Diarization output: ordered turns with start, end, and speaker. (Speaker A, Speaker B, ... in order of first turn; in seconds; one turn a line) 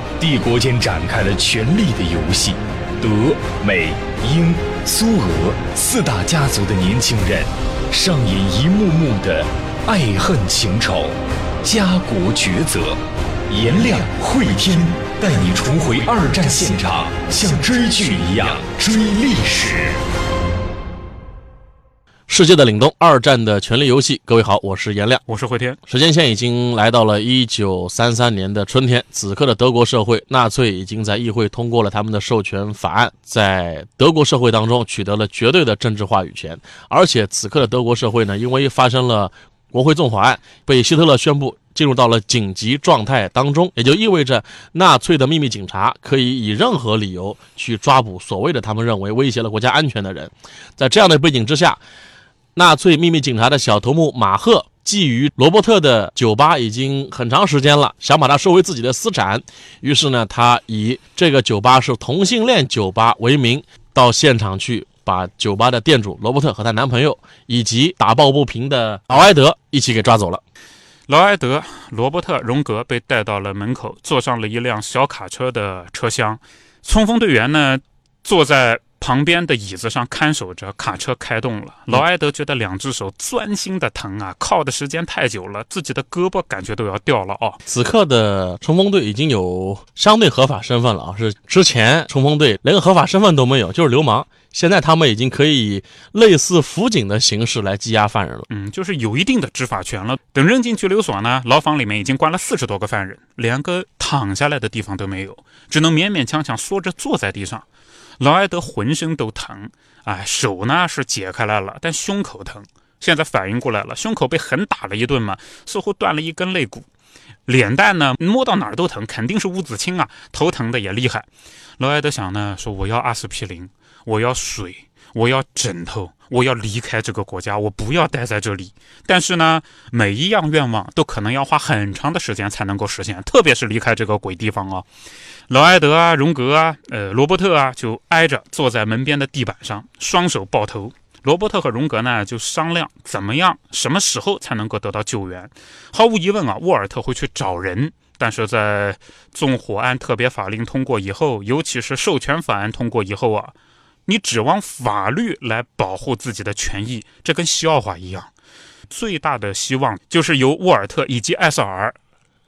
Speaker A: 0.2-20.0
Speaker B: 22.3-25.2
Speaker C: 25.3-25.8
Speaker B: 25.9-51.8
Speaker B: 52.5-70.4
Speaker C: 71.1-87.6
Speaker B: 87.7-98.5
Speaker C: 98.5-107.6
Speaker C: 108.2-116.8
Speaker C: 117.5-121.3
Speaker C: 121.8-134.8
Speaker C: 135.5-153.5
Speaker C: 154.1-158.3
Speaker C: 158.9-162.0